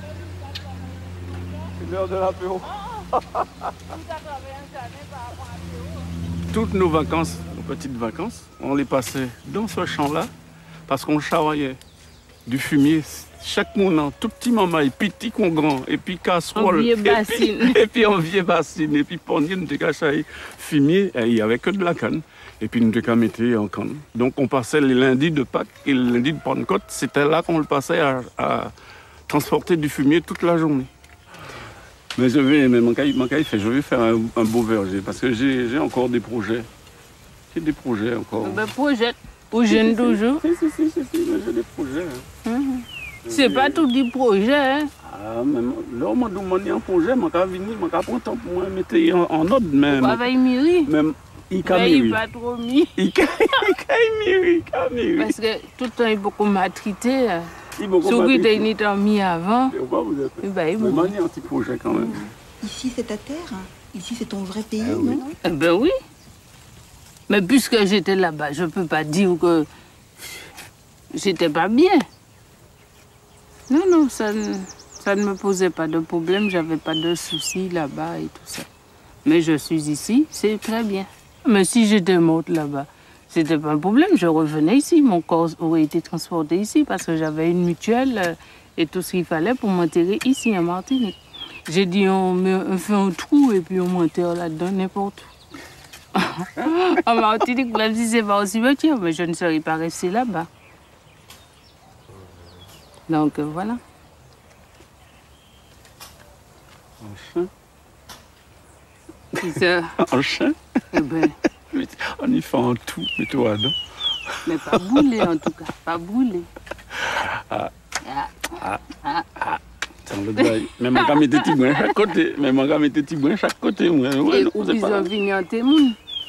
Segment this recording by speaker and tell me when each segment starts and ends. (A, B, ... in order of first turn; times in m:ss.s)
0:01.8-0:03.5 A
0:06.5-0:10.3 A
0:10.9-0:11.8 A
0:12.4-0:28.7 A
0:16.5-0:17.8 B
0:29.3-0:30.9 A
0:32.2-0:36.7 A
0:37.5-0:38.6 A
0:38.4-0:40.4 B
0:39.7-0:42.2 A
0:42.4-0:44.9 B
0:43.2-0:43.8 A
0:45.0-0:50.3 A
0:49.9-0:50.9 B
0:50.8-0:52.2 A
0:51.6-0:52.9 B
0:53.0-0:55.3 A
0:55.2-0:57.5 B
0:57.8-0:58.7 A
0:58.0-0:59.7 B
0:59.7-1:02.3 A
1:00.4-1:01.1 B
1:01.9-1:05.2 C
1:04.8-1:05.0 A
1:05.0-1:05.9 B
1:07.3-1:09.7 B
1:11.1-1:12.0 B
1:13.7-1:18.7 B
1:19.2-1:35.3 B
1:36.2-1:40.5 B
1:43.1-1:43.8 B
1:47.0-1:47.5 A
1:49.4-1:49.9 B
1:50.0-1:50.5 A
1:50.9-1:51.3 B
1:51.7-1:53.7 A
1:54.4-1:56.5 B
1:57.0-1:57.7 A
1:58.0-1:58.5 B
1:59.4-2:05.1 A
2:00.4-2:01.6 B
2:04.3-2:06.0 B